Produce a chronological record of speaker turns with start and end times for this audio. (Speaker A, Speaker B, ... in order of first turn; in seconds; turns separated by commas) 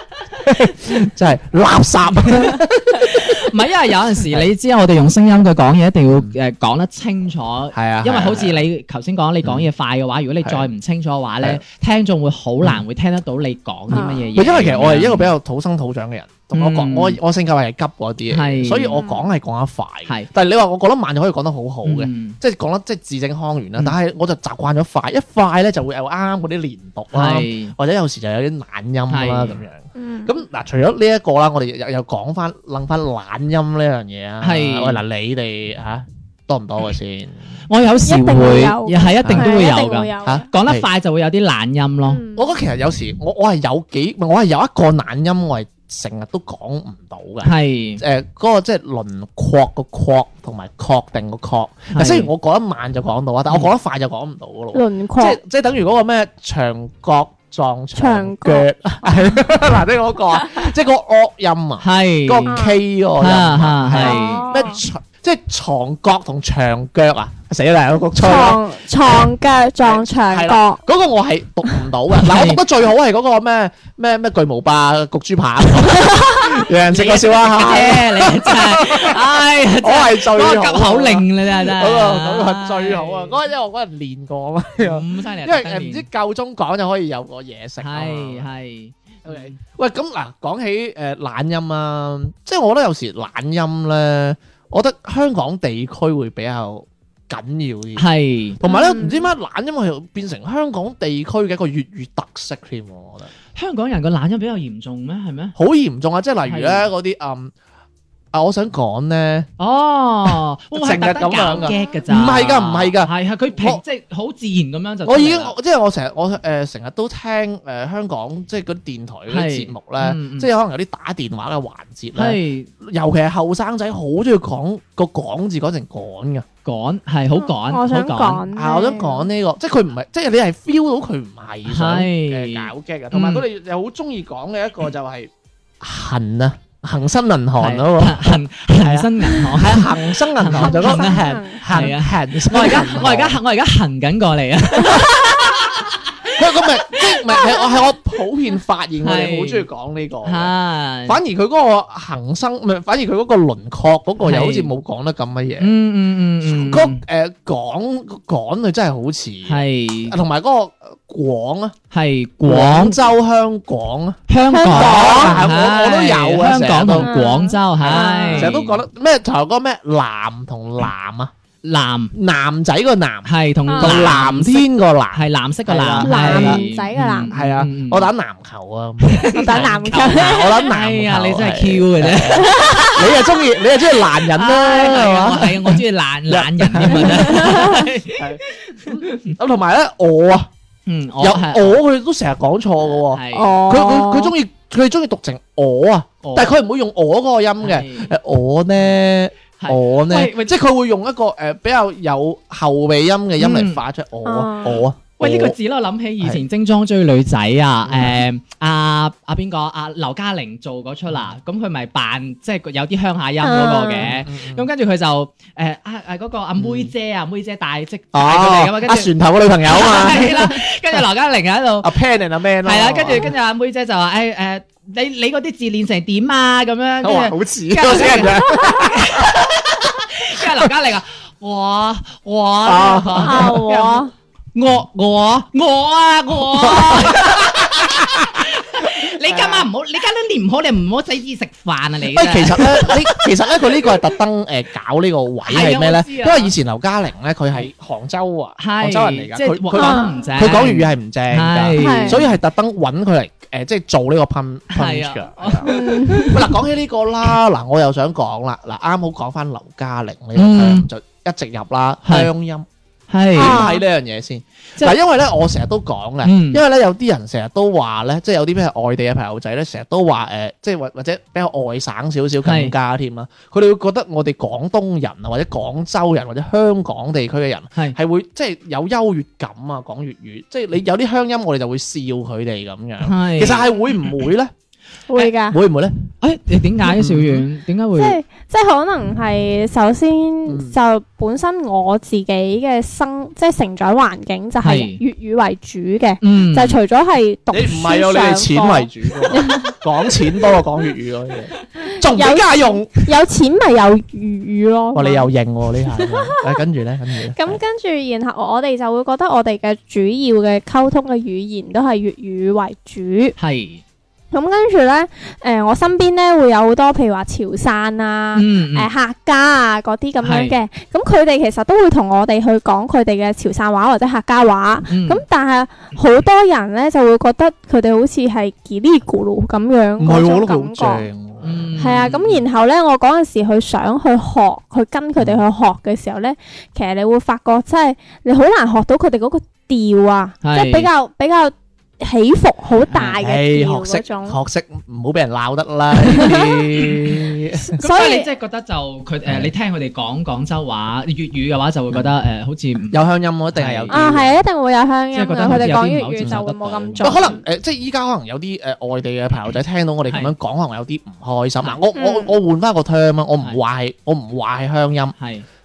Speaker A: 0.4-3.5, Speaker B: 3.0-15.3, Speaker A: 4.2-4.5, Speaker A: 6.1-6.3, Speaker A: 7.7-8.7, Speaker A: 9.4-9.7, Speaker C: 13.9-14.3, Speaker A: 14.3-37.5, Speaker B: 16.5-17.2, Speaker B: 18.3-19.0, Speaker C: 18.9-19.3, Speaker B: 21.9-22.4, Speaker B: 27.1-27.8, Speaker B: 29.1-29.6, Speaker C: 30.0-30.3, Speaker B: 34.4-35.0, Speaker B: 37.7-42.2, Speaker C: 38.0-40.5, Speaker A: 39.2-40.9, Speaker C: 42.1-42.5, Speaker A: 42.3-69.2, Speaker B: 47.4-48.0, Speaker B: 51.9-52.3, Speaker C: 54.7-55.4, Speaker C: 58.0-59.4, Speaker B: 61.8-62.6, Speaker C: 62.5-62.8, Speaker B: 63.2-64.5, Speaker C: 64.0-64.8, Speaker C: 68.2-70.8, Speaker A: 69.8-88.5, Speaker B: 72.2-72.6, Speaker B: 76.9-83.4, Speaker B: 84.8-86.1, Speaker B: 87.8-89.6, Speaker A: 89.2-103.3, Speaker B: 98.0-98.6, Speaker C: 98.6-99.3, Speaker B: 103.5-105.5, Speaker A: 105.6-107.5, Speaker B: 106.5-106.9, Speaker A: 108.3-109.5, Speaker B: 109.6-115.5, Speaker A: 110.3-113.8, Speaker A: 115.0-126.5, Speaker B: 119.3-120.5, Speaker B: 122.2-122.7, Speaker B: 126.7-128.4, Speaker C: 127.4-129.3, Speaker A: 128.5-143.4, Speaker B: 131.7-133.4, Speaker B: 137.6-147.6, Speaker C: 140.6-141.8, Speaker A: 146.3-150.5, Speaker B: 149.0-149.7, Speaker B: 150.2-151.2, Speaker A: 151.1-155.7, Speaker B: 154.2-154.7, Speaker B: 155.6-157.0, Speaker A: 156.4-161.8, Speaker B: 159.5-160.2, Speaker B: 161.9-163.0, Speaker A: 162.4-167.1, Speaker B: 164.3-168.8, Speaker C: 164.5-165.4, Speaker C: 167.0-168.5, Speaker A: 167.8-171.3, Speaker B: 171.6-172.1, Speaker A: 172.1-176.7, Speaker B: 173.2-178.1, Speaker C: 173.7-174.0, Speaker C: 176.0-177.3, Speaker A: 177.3-190.5, Speaker B: 179.0-183.0, Speaker C: 179.3-180.7, Speaker C: 182.3-183.1, Speaker B: 184.3-189.4, Speaker C: 187.2-187.7, Speaker B: 190.9-191.8, Speaker A: 191.2-205.6, Speaker B: 192.9-193.6, Speaker C: 193.3-194.3, Speaker B: 196.2-196.6, Speaker B: 197.6-198.1, Speaker B: 199.6-200.6, Speaker B: 203.4-203.8, Speaker C: 204.2-204.8, Speaker B: 205.2-219.1, Speaker A: 207.9-208.2, Speaker C: 213.4-214.1, Speaker A: 213.9-214.7, Speaker A: 216.6-216.9, Speaker A: 218.1-220.6, Speaker B: 219.7-221.9, Speaker A: 221.8-223.3, Speaker B: 222.6-244.0, Speaker A: 227.0-230.7, Speaker A: 232.7-233.8, Speaker C: 233.2-234.1, Speaker A: 236.4-239.7, Speaker A: 242.1-262.7, Speaker B: 245.4-246.5, Speaker B: 248.6-252.3, Speaker C: 249.8-250.1, Speaker C: 251.8-252.2, Speaker B: 254.7-256.4, Speaker C: 255.7-256.5, Speaker B: 260.4-260.9, Speaker B: 262.1-262.3, Speaker B: 263.1-263.6, Speaker A: 263.4-284.5, Speaker C: 263.4-263.8, Speaker B: 266.2-266.6, Speaker B: 272.4-272.7, Speaker B: 283.0-283.7, Speaker C: 285.1-285.6, Speaker A: 285.2-286.0, Speaker B: 286.2-288.2, Speaker A: 286.8-287.4, Speaker C: 287.9-299.8, Speaker A: 290.5-290.8, Speaker B: 294.6-295.0, Speaker B: 296.2-296.8, Speaker A: 297.5-303.0, Speaker C: 301.8-305.3, Speaker A: 304.9-307.6, Speaker C: 305.8-306.4, Speaker C: 307.4-313.4, Speaker B: 313.4-313.8, Speaker C: 314.3-331.1, Speaker B: 318.4-318.9, Speaker B: 320.2-320.6, Speaker B: 324.9-325.2, Speaker A: 330.0-332.0, Speaker B: 331.4-332.5, Speaker C: 331.8-344.4, Speaker A: 335.2-335.4, Speaker B: 340.4-340.9, Speaker B: 342.9-343.2, Speaker A: 343.2-347.8, Speaker C: 346.1-346.6, Speaker C: 347.7-348.3, Speaker B: 347.8-353.0, Speaker A: 349.3-349.5, Speaker A: 352.9-354.4, Speaker B: 353.5-354.0, Speaker C: 353.9-357.4, Speaker B: 355.1-357.4, Speaker A: 357.0-365.1, Speaker B: 360.1-360.3, Speaker C: 361.9-362.3, Speaker B: 365.2-365.4